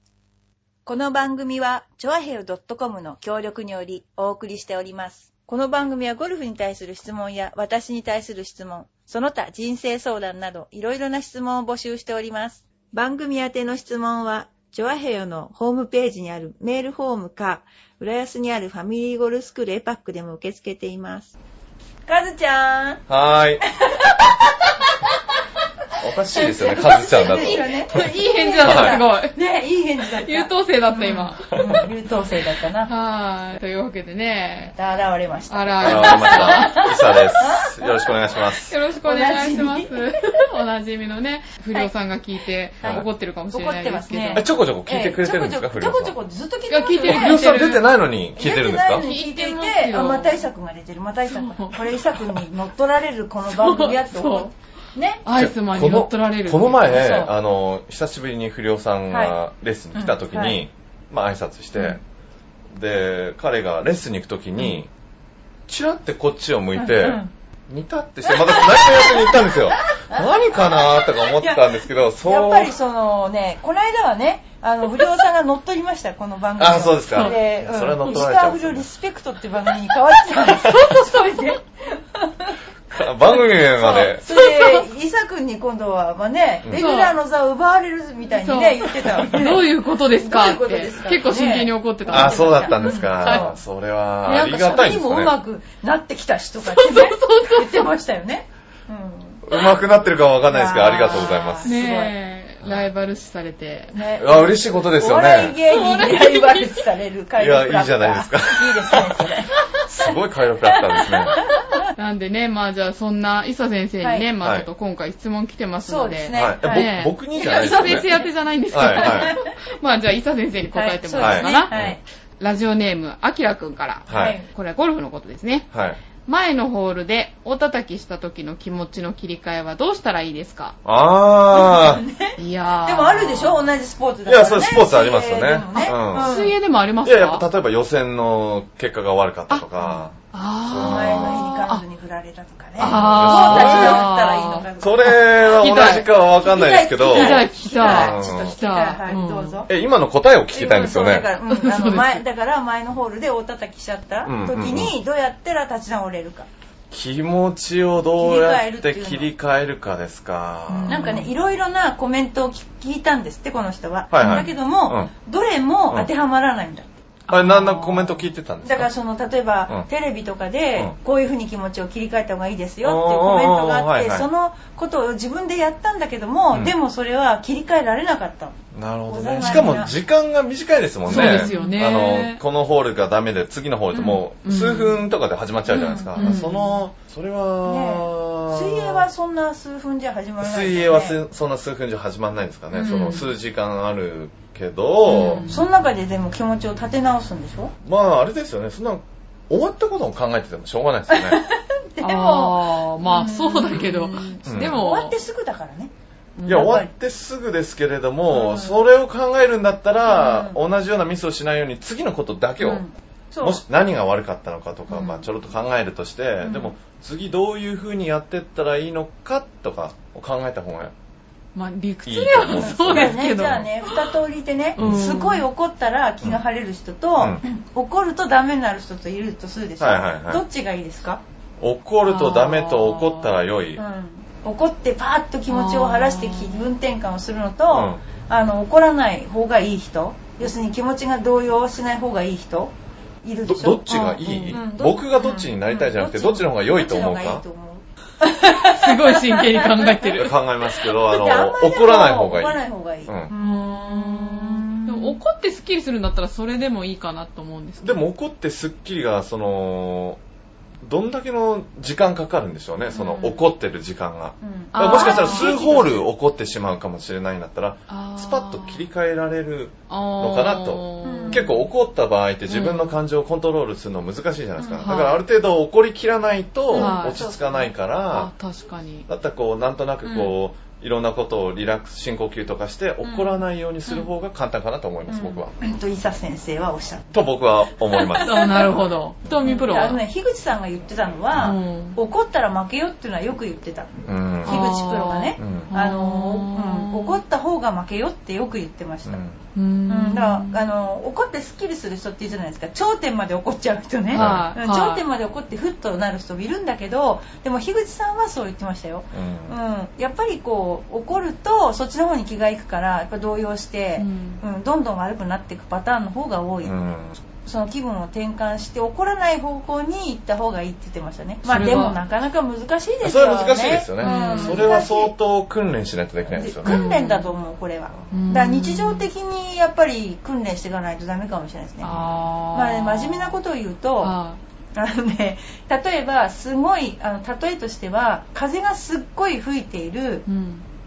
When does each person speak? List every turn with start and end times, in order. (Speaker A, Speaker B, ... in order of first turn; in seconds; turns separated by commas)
Speaker A: 0.9-21.3, Speaker A: 22.1-23.0, Speaker B: 23.1-23.6, Speaker A: 23.7-24.5, Speaker B: 26.0-28.0, Speaker A: 26.3-32.9, Speaker C: 27.2-29.4, Speaker B: 28.6-29.0, Speaker C: 30.2-31.4, Speaker B: 31.5-31.9, Speaker C: 32.9-34.7, Speaker A: 34.6-38.0, Speaker C: 35.5-37.3, Speaker B: 35.8-38.8, Speaker C: 38.7-44.5, Speaker A: 39.0-40.0, Speaker A: 43.5-47.5, Speaker B: 44.3-46.1, Speaker C: 46.7-47.8, Speaker B: 47.0-49.0, Speaker A: 48.4-55.2, Speaker C: 48.9-50.4, Speaker C: 51.3-52.4, Speaker C: 53.5-54.5, Speaker C: 55.2-57.3, Speaker B: 55.4-62.0, Speaker A: 56.9-57.3, Speaker A: 59.1-59.4, Speaker A: 59.9-60.6, Speaker B: 62.7-64.9, Speaker B: 65.7-72.7, Speaker A: 66.8-67.3, Speaker A: 68.2-82.6, Speaker B: 76.6-78.9, Speaker B: 82.9-84.2, Speaker A: 83.6-93.6, Speaker C: 84.3-84.8, Speaker C: 86.8-87.2, Speaker C: 88.3-93.5, Speaker B: 92.1-95.3, Speaker A: 94.2-99.4, Speaker C: 96.7-97.9, Speaker B: 99.5-101.7, Speaker A: 100.5-102.1, Speaker C: 101.1-103.9, Speaker A: 103.9-110.1, Speaker B: 104.2-105.6, Speaker C: 105.7-106.8, Speaker B: 107.4-109.2, Speaker B: 109.9-111.4, Speaker A: 110.7-111.9, Speaker C: 112.0-121.7, Speaker A: 114.0-114.3, Speaker B: 114.4-114.7, Speaker A: 115.8-118.3, Speaker B: 116.3-118.1, Speaker B: 118.7-119.4, Speaker A: 118.8-119.5, Speaker A: 120.7-122.0, Speaker B: 121.2-122.0, Speaker C: 122.4-125.7, Speaker B: 124.1-124.4, Speaker A: 124.1-124.5, Speaker B: 125.7-126.0, Speaker C: 126.3-130.8, Speaker B: 130.8-132.0, Speaker A: 131.5-136.5, Speaker C: 132.4-133.7, Speaker B: 134.3-136.4, Speaker C: 135.8-137.4, Speaker B: 137.0-140.1, Speaker C: 139.5-141.8, Speaker B: 140.7-141.5, Speaker A: 140.7-149.7, Speaker B: 142.8-144.1, Speaker C: 142.8-146.1, Speaker B: 144.8-148.6, Speaker C: 147.0-149.6, Speaker B: 149.7-151.3, Speaker A: 150.5-156.5, Speaker C: 151.5-152.2, Speaker B: 154.3-154.9, Speaker B: 156.9-161.2, Speaker A: 158.2-159.3, Speaker C: 160.7-161.3, Speaker A: 160.9-167.0, Speaker B: 164.1-165.1, Speaker C: 164.2-164.5, Speaker C: 167.3-168.3, Speaker B: 167.3-168.9, Speaker A: 168.6-178.6, Speaker B: 172.8-174.3, Speaker B: 178.7-189.1, Speaker A: 179.1-179.9, Speaker C: 179.4-179.8, Speaker C: 181.1-182.4, Speaker A: 181.1-181.8, Speaker C: 184.0-185.0, Speaker A: 185.7-186.6, Speaker C: 186.2-186.7, Speaker A: 187.7-191.2, Speaker B: 190.4-195.4, Speaker C: 192.8-193.3, Speaker A: 192.8-193.2, Speaker C: 195.1-195.7, Speaker A: 195.1-197.7, Speaker B: 197.8-201.4, Speaker A: 201.1-205.9, Speaker C: 202.0-205.2, Speaker B: 204.5-204.8, Speaker C: 206.4-206.8, Speaker A: 206.5-206.9, Speaker B: 206.5-212.8, Speaker A: 208.3-208.8, Speaker A: 210.1-210.6, Speaker A: 212.6-213.6, Speaker B: 213.4-220.9, Speaker A: 214.9-215.2, Speaker C: 221.6-224.1, Speaker B: 222.1-223.6, Speaker A: 222.5-231.2, Speaker C: 224.8-225.4, Speaker B: 224.8-225.2, Speaker B: 229.8-230.4, Speaker B: 231.6-233.8, Speaker C: 232.1-233.4, Speaker A: 233.8-242.7, Speaker C: 235.5-236.7, Speaker B: 237.7-238.0, Speaker A: 243.2-250.2, Speaker B: 243.4-247.4, Speaker C: 243.9-244.6, Speaker C: 248.6-250.3, Speaker B: 250.1-253.3, Speaker A: 250.8-255.2, Speaker C: 253.4-258.0, Speaker B: 257.8-260.2, Speaker B: 260.8-278.3, Speaker A: 262.9-263.4, Speaker A: 264.4-266.1, Speaker C: 264.7-265.9, Speaker C: 267.9-268.9, Speaker C: 269.9-271.6, Speaker A: 271.0-271.6, Speaker C: 272.5-273.0, Speaker A: 274.6-274.9, Speaker C: 274.8-275.2, Speaker A: 276.7-277.7, Speaker C: 276.7-277.2, Speaker C: 278.1-279.1, Speaker B: 279.1-285.5, Speaker C: 280.1-280.3, Speaker A: 283.0-283.4, Speaker A: 285.1-287.1, Speaker B: 287.1-288.4, Speaker A: 287.9-288.8, Speaker C: 288.2-290.0, Speaker A: 289.4-293.9, Speaker C: 291.4-292.0, Speaker B: 294.1-294.7, Speaker A: 294.4-299.2, Speaker C: 294.5-297.2, Speaker B: 295.4-295.7, Speaker B: 299.1-299.4, Speaker C: 299.6-300.6, Speaker A: 299.9-316.8, Speaker C: 304.1-305.0, Speaker B: 304.1-304.5, Speaker B: 309.1-309.5, Speaker C: 314.0-314.4, Speaker B: 316.6-317.2, Speaker A: 317.4-325.1, Speaker C: 321.4-322.0, Speaker B: 323.0-326.8, Speaker C: 324.0-324.8, Speaker A: 326.3-331.9, Speaker C: 326.6-327.4, Speaker C: 328.1-329.1, Speaker C: 331.8-333.4, Speaker A: 332.5-334.2, Speaker C: 334.0-334.4, Speaker A: 334.8-340.2, Speaker C: 340.3-340.6